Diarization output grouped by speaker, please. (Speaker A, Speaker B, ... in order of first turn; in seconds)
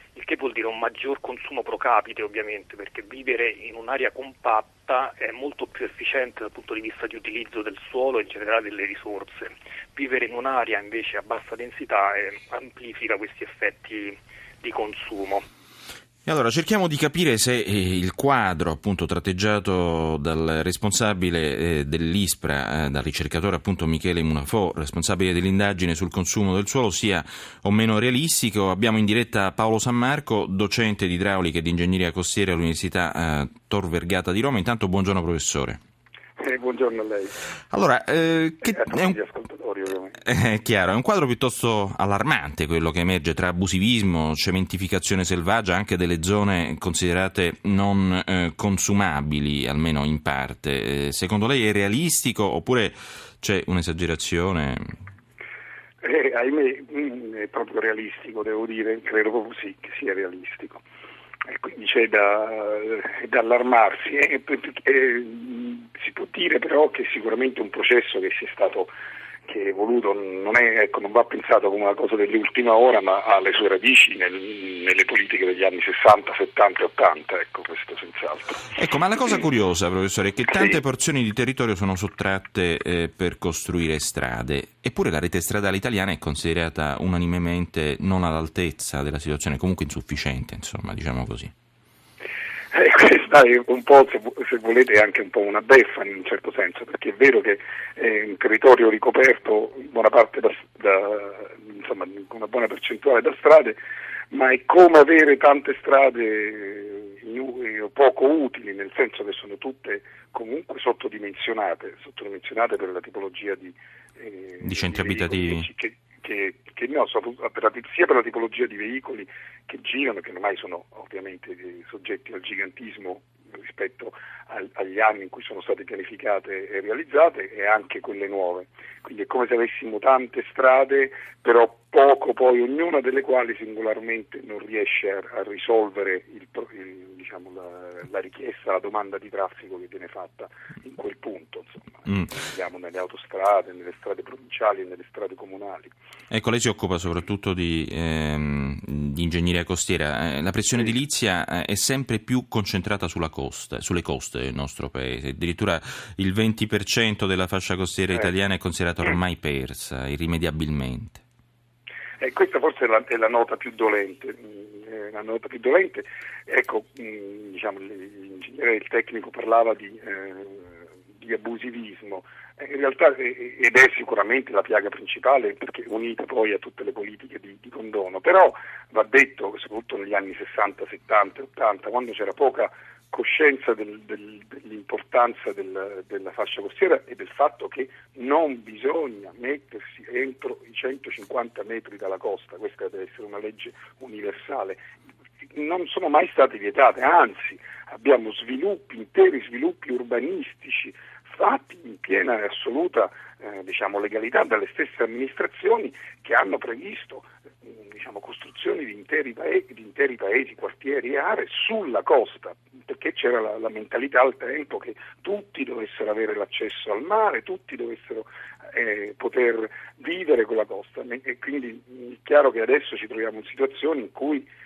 Speaker A: 0.1-15.4
Speaker B: 16.3-35.8, 37.7-39.2, 40.2-55.0, 78.7-91.5, 114.6-115.7, 142.1-142.4, 146.3-161.2
Speaker C: 36.4-37.3, 38.6-40.2, 56.0-60.8, 61.5-68.9, 69.5-78.7, 92.7-103.8, 104.3-145.9, 162.2-194.8, 195.6-224.5